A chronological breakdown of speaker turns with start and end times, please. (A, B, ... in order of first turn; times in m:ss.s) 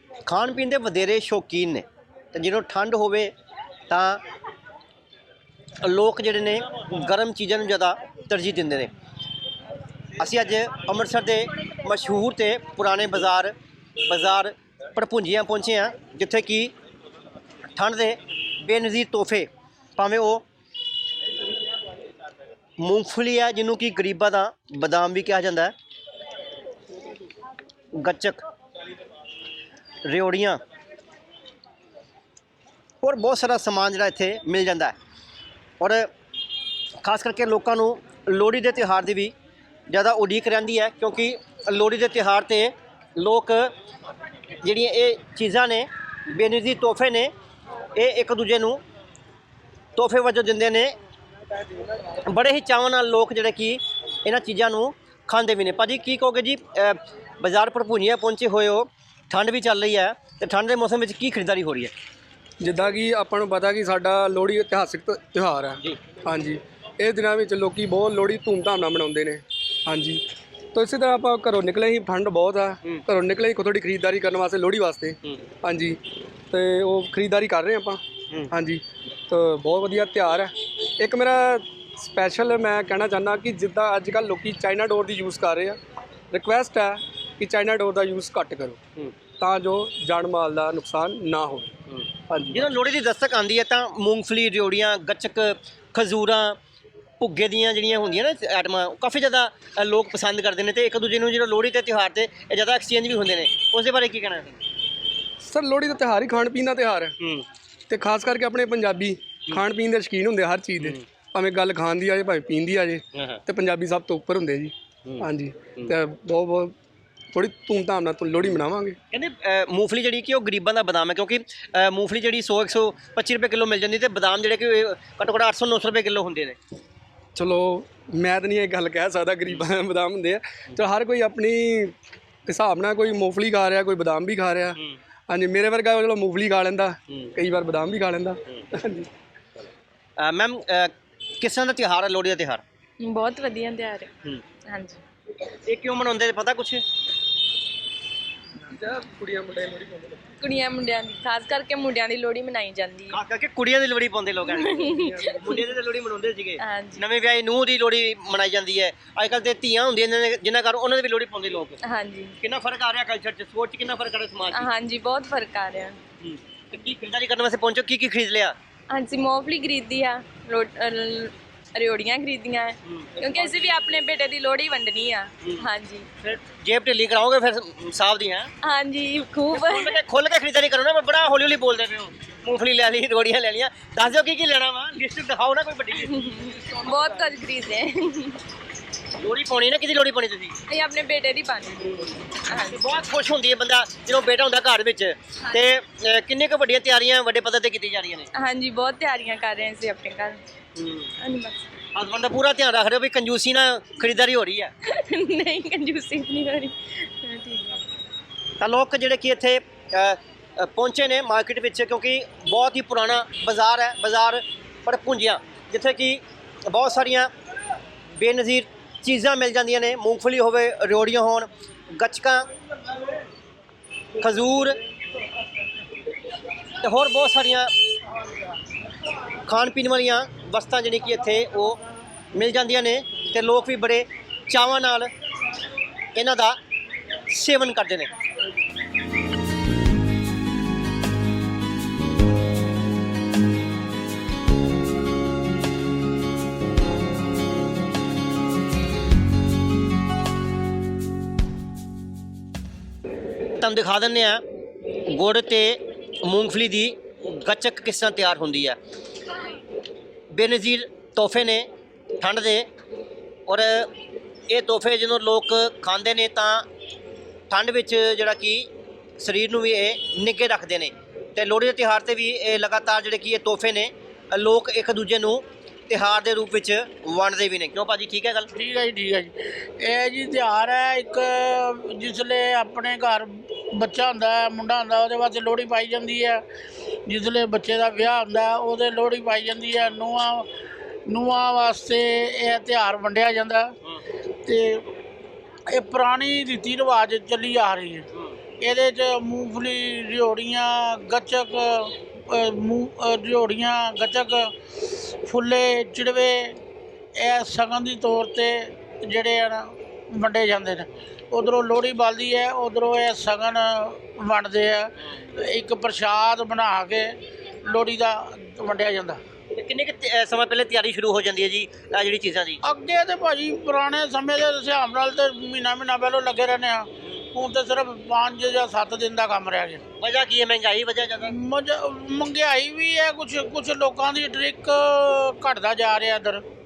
0:00.3-0:03.3 A
0:03.9-0:04.2 A
0:05.8-0:08.9 A
0:10.2-0:16.7 A
0:17.8-0:20.4 A
0:22.8-0:25.7 A
0:28.0-0:28.4 A
0:30.1-0:30.6 A
0:33.0-0:35.0 A
0:35.8-0:36.1 A
0:37.0-0:39.3 A
0:39.9-0:43.7 A
0:44.6-0:47.3 A
0:48.0-0:48.8 A
0:50.0-0:50.9 A
0:52.0-1:01.9 A
1:02.6-1:10.2 B
1:10.7-1:16.0 B
1:16.5-1:25.8 B
1:26.3-1:28.8 B
1:29.3-1:31.8 B
1:31.9-1:36.6 A
1:32.3-1:32.6 B
1:37.2-1:44.6 A
1:45.4-1:47.2 B
1:47.9-1:56.7 B
1:57.3-1:59.0 B
1:59.1-2:06.6 A
2:07.4-2:11.9 B
2:12.5-2:14.8 B
2:15.3-2:19.1 B
2:20.2-2:22.6 A
2:23.0-2:24.1 C
2:24.7-2:25.0 C
2:25.6-2:26.8 A
2:28.7-2:30.2 B
2:30.4-2:33.2 C
2:33.1-2:34.9 A
2:34.5-2:35.6 C
2:35.0-2:35.4 B
2:35.4-2:41.8 A
2:36.6-2:37.0 C
2:41.8-2:42.4 C
2:42.4-2:44.7 A
2:44.5-2:46.0 C
2:46.2-2:48.6 A
2:48.9-2:56.1 C
2:52.9-2:54.0 A
2:56.2-2:58.5 A
2:58.6-3:00.0 C
2:59.5-3:06.1 A
3:05.9-3:08.4 C
3:09.2-3:10.6 A
3:10.7-3:13.0 C
3:12.7-3:18.3 A
3:18.3-3:20.4 C
3:20.8-3:21.0 A
3:21.2-3:21.7 C
3:22.0-3:24.7 A
3:24.9-3:27.8 C
3:28.6-3:37.3 A
3:38.2-3:42.5 A
3:44.2-3:44.8 A
3:46.8-3:47.7 A
3:49.5-3:51.8 A
3:52.4-3:55.1 A
3:56.2-3:56.6 A
3:57.3-3:58.1 A
4:13.6-4:14.4 A
4:15.0-4:18.8 A
4:20.3-4:21.7 A
4:22.2-4:22.7 A
4:23.5-4:23.9 A
4:24.5-4:26.6 A
4:27.5-4:28.7 A
4:29.2-4:38.5 A
4:38.5-4:46.4 D
4:47.1-4:50.5 D
4:51.1-4:53.7 D
4:54.4-4:54.9 D
4:55.7-4:58.1 D
4:58.6-5:06.6 D
5:07.2-5:19.2 D
5:19.5-5:22.6 A
5:22.6-5:29.8 D
5:30.0-5:31.4 A
5:31.2-5:36.4 D